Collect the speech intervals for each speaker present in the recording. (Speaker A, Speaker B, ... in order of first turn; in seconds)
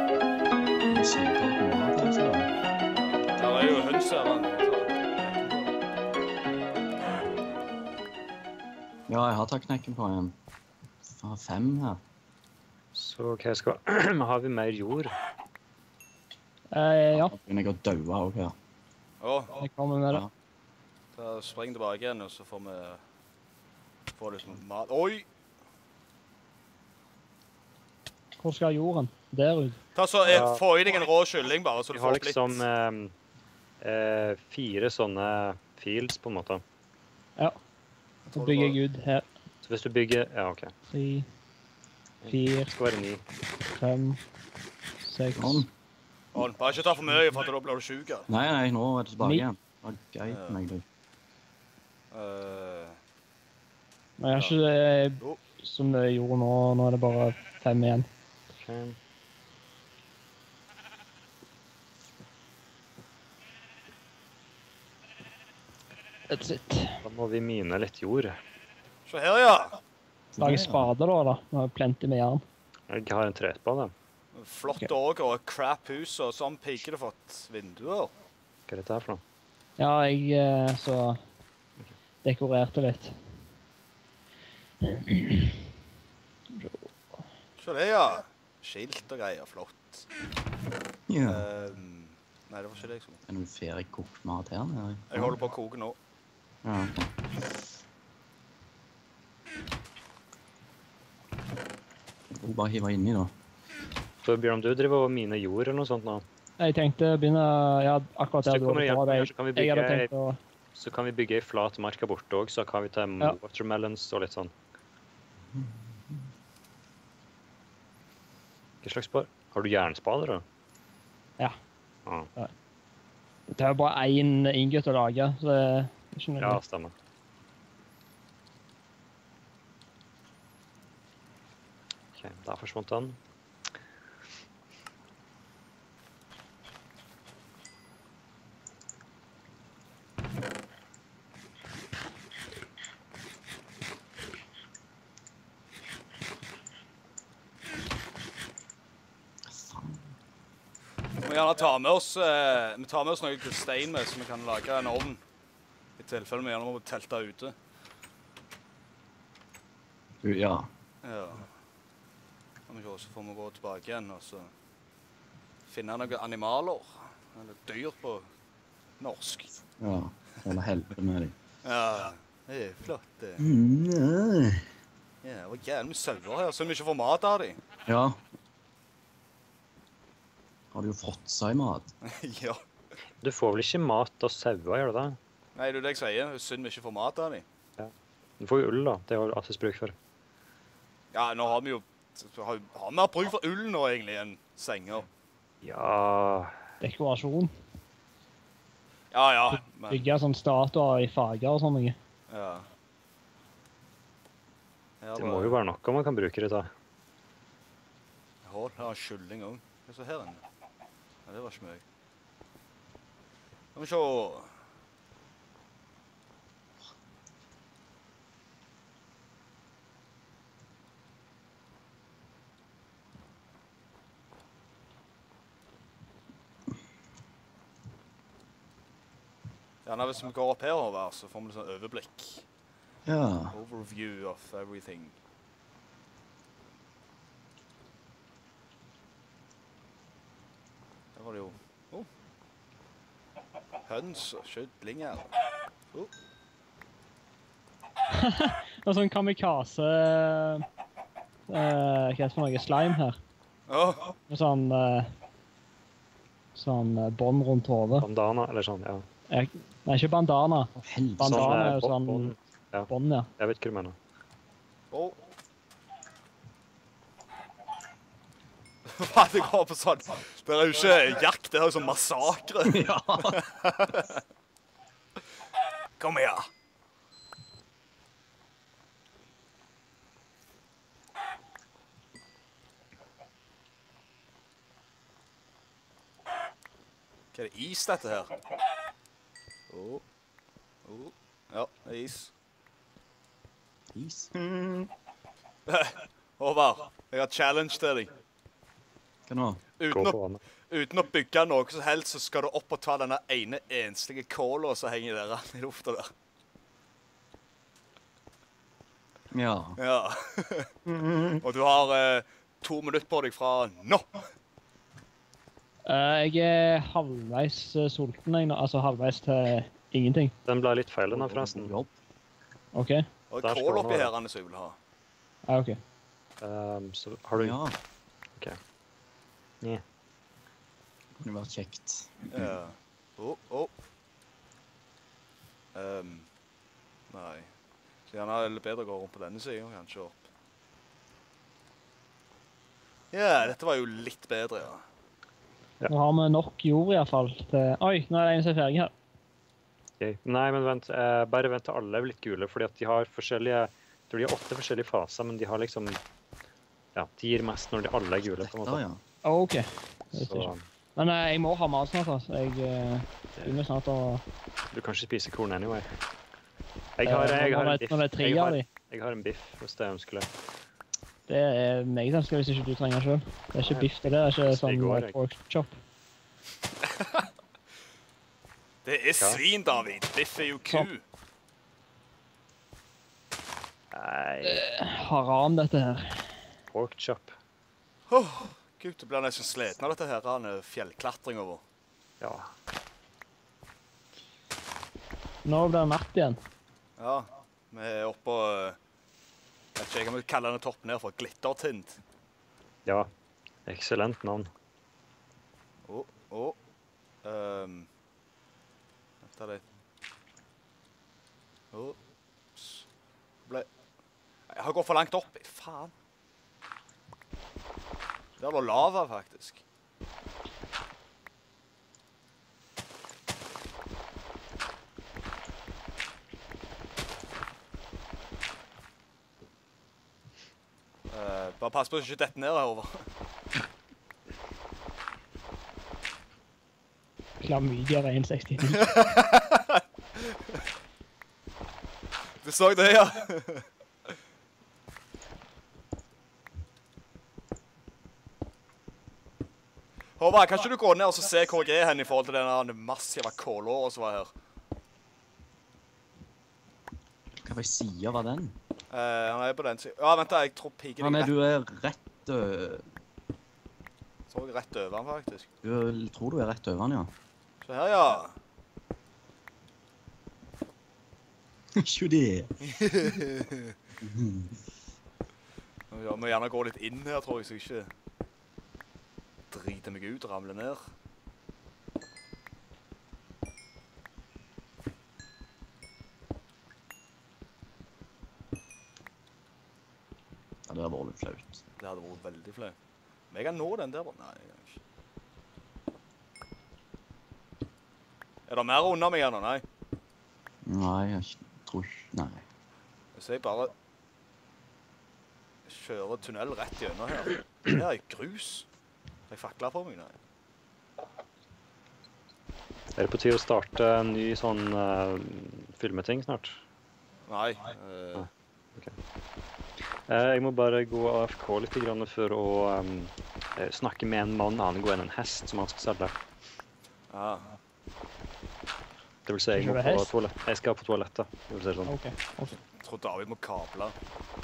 Speaker A: 0.9-2.5, 9.1-10.3, 11.0-12.0, 17.1-18.5, 45.3-45.7, 48.3-50.8, 70.3-70.9, 91.1-91.5, 93.3-95.4, 96.6-97.1, 102.3-103.3, 115.5-116.2, 149.5-150.1, 160.2-160.7, 169.8-171.3, 173.4-174.7, 177.9-178.2, 180.7-181.9, 233.1-233.6, 260.8-261.8, 272.6-273.4, 293.9-294.9, 299.3-299.6, 309.3-309.8, 310.9-311.4, 321.1-321.9, 327.4-327.8, 331.2-332.6, 358.2-359.0, 457.4-458.6, 461.0-462.8, 465.6-467.1, 471.8-473.1, 474.0-474.6, 490.7-491.6, 500.6-502.4
Speaker B: 2.9-5.7, 19.2-19.6, 21.1-23.0, 24.1-25.3, 29.9-32.6, 38.2-38.8, 46.3-48.3, 50.2-50.6, 52.1-53.0, 69.0-69.8, 74.3-78.1, 87.6-90.1, 91.2-93.2, 95.1-96.0, 151.2-155.2, 156.0-157.5, 161.0-161.5, 162.7-164.5, 165.7-168.3, 169.0-169.6, 171.6-173.4, 175.2-177.6, 182.0-182.6, 185.5-187.4, 191.1-195.1, 199.1-200.0, 202.3-202.7, 205.0-205.6, 208.4-210.4, 211.2-211.8, 213.7-214.5, 229.8-232.5, 233.5-235.2, 241.1-242.1, 243.8-245.3, 253.7-254.1, 264.9-265.2, 268.9-274.2, 276.0-276.5, 287.3-288.3, 289.7-290.0, 290.8-292.3, 295.6-298.1, 299.8-300.2, 300.7-306.1, 309.8-310.7, 311.4-314.1, 323.3-324.8, 332.3-333.7, 335.7-336.3, 337.1-337.5, 338.1-340.3, 343.1-344.8, 378.8-381.0, 388.1-391.6, 397.0-398.8, 399.8-402.0, 405.8-406.6, 407.2-407.9, 409.2-409.6, 411.7-412.0, 412.5-412.9, 414.5-415.9, 418.4-419.6, 431.1-433.1, 438.6-440.6, 442.4-444.1, 450.2-454.3, 458.9-461.3, 464.3-465.5, 467.6-468.4, 472.6-473.7, 475.9-477.9, 479.5-480.9, 491.8-492.8, 493.3-494.8, 498.5-499.6, 503.1-503.7, 505.6-508.7, 509.3-510.1, 517.2-518.3, 527.1-527.5, 532.8-533.9
Speaker C: 12.9-15.1, 30.2-30.6, 31.9-33.1, 33.8-36.6, 39.6-40.7, 42.2-43.2, 58.5-59.0, 67.0-68.3, 72.9-73.9, 78.7-79.2, 104.2-106.2, 108.4-110.1, 110.7-114.5, 118.8-120.4, 126.4-126.9, 132.1-133.2, 183.2-185.2, 187.8-189.9, 195.6-196.5, 205.1-206.7, 258.0-259.1, 261.2-264.0, 299.9-300.4, 320.4-321.7, 323.4-324.1, 326.4-327.6, 350.0-356.0, 356.9-358.8, 360.1-360.6, 363.3-363.6, 364.7-365.9, 367.0-370.3, 373.6-375.1, 379.1-379.4, 383.9-384.6, 386.7-387.3, 392.2-392.5, 403.6-404.5, 513.0-516.6, 518.1-518.9, 520.0-526.1, 529.2-532.0
Speaker D: 16.7-17.3, 19.6-20.2, 28.4-29.8, 38.3-39.3, 40.9-41.2, 42.2-42.7, 43.7-44.2, 45.0-45.6, 49.2-49.5, 54.2-58.1, 66.3-67.0, 70.4-72.4, 79.8-81.2, 82.2-83.1, 84.8-85.5, 86.5-86.9, 106.6-110.4, 123.5-126.6, 196.8-197.5, 199.5-201.9, 248.1-250.6, 251.5-253.2, 254.2-255.1, 256.5-258.1, 259.3-262.3, 262.9-263.3, 315.9-320.3, 322.7-323.0, 325.5-325.8, 345.9-348.9, 359.2-364.2, 367.0-368.6, 371.3-375.7, 384.4-386.4, 395.4-396.4, 437.4-438.8, 529.5-530.1, 531.8-532.6